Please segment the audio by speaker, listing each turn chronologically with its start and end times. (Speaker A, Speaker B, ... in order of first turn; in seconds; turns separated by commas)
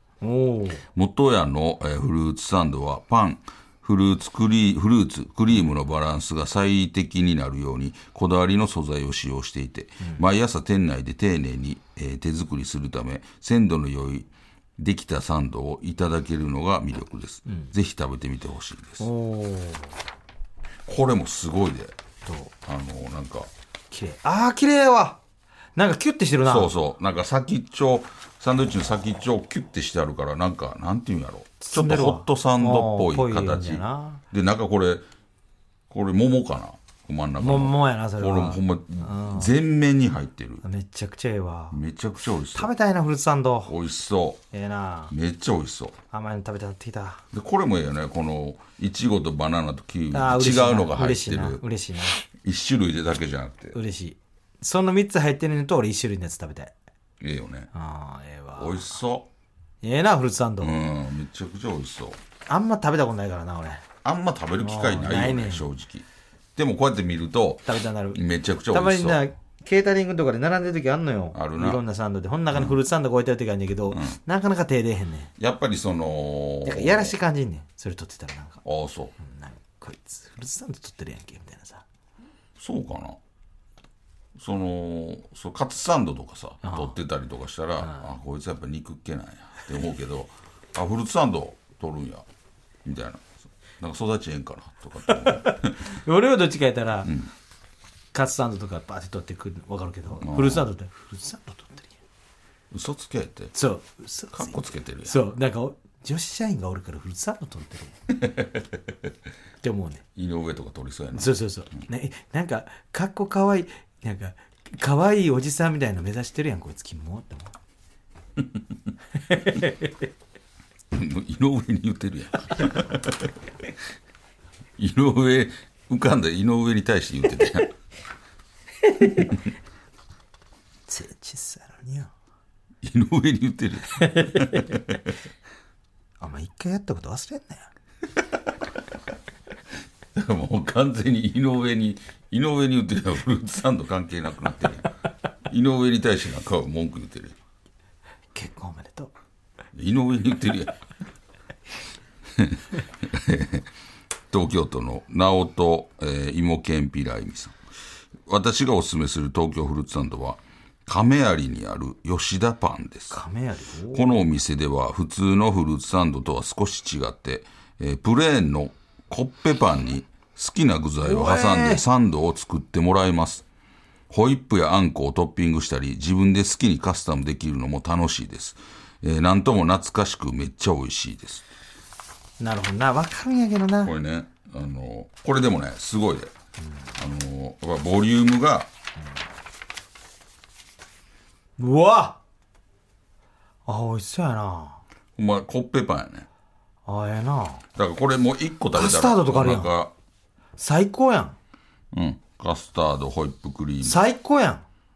Speaker A: 0.2-0.8, Speaker B: 0.9-19.1, Speaker A: 19.0-19.9, Speaker B: 20.9-21.9, Speaker A: 22.2-22.5, Speaker B: 22.6-23.5, Speaker A: 23.9-25.2, Speaker A: 25.8-26.7, Speaker B: 26.4-35.0, Speaker A: 31.6-34.2, Speaker B: 35.9-40.6, Speaker A: 37.4-39.5, Speaker A: 40.6-41.8, Speaker B: 41.7-42.7, Speaker A: 42.5-43.7, Speaker B: 43.6-44.4, Speaker A: 44.5-45.1, Speaker B: 45.1-46.0, Speaker A: 46.1-47.2, Speaker B: 47.3-51.6, Speaker A: 50.1-52.2, Speaker B: 52.3-53.8, Speaker A: 53.7-56.7, Speaker B: 57.2-57.7, Speaker A: 57.7-58.9, Speaker B: 58.6-59.3, Speaker A: 59.8-60.8, Speaker B: 60.6-62.2, Speaker A: 62.5-63.8, Speaker B: 64.0-69.2, Speaker A: 64.6-65.7, Speaker A: 67.7-75.3, Speaker B: 71.3-71.8, Speaker B: 73.9-74.2, Speaker B: 75.4-77.1, Speaker A: 76.6-78.6, Speaker B: 78.6-79.1, Speaker A: 79.2-81.8, Speaker B: 82.6-83.2, Speaker B: 84.3-92.2, Speaker A: 86.6-87.0, Speaker B: 92.8-95.8, Speaker A: 95.1-97.1, Speaker B: 97.0-97.3, Speaker A: 98.1-102.0, Speaker B: 100.2-100.7, Speaker B: 102.7-103.5, Speaker A: 103.5-107.9, Speaker B: 104.3-105.2, Speaker B: 108.1-108.9, Speaker A: 109.6-110.0, Speaker B: 110.2-111.4, Speaker A: 111.1-117.5, Speaker A: 119.3-119.9, Speaker B: 120.9-123.3, Speaker B: 124.8-127.7, Speaker A: 128.9-129.3, Speaker A: 130.9-132.1, Speaker B: 132.8-135.1, Speaker A: 134.0-134.7, Speaker A: 136.2-137.7, Speaker B: 140.1-144.9, Speaker B: 145.5-147.3, Speaker A: 148.3-149.1, Speaker B: 149.8-150.7, Speaker B: 152.3-153.7, Speaker B: 154.3-157.6, Speaker B: 158.3-163.2, Speaker A: 163.1-164.2, Speaker B: 163.9-173.4, Speaker A: 171.0-171.8, Speaker B: 174.1-181.4, Speaker A: 182.4-183.9, Speaker B: 183.8-186.3, Speaker B: 187.0-188.7, Speaker A: 191.6-192.2, Speaker A: 193.7-194.8, Speaker B: 195.2-196.3, Speaker A: 196.9-197.6, Speaker B: 197.8-199.9, Speaker A: 198.7-199.7, Speaker A: 200.6-201.4, Speaker B: 201.9-204.0, Speaker A: 203.8-204.6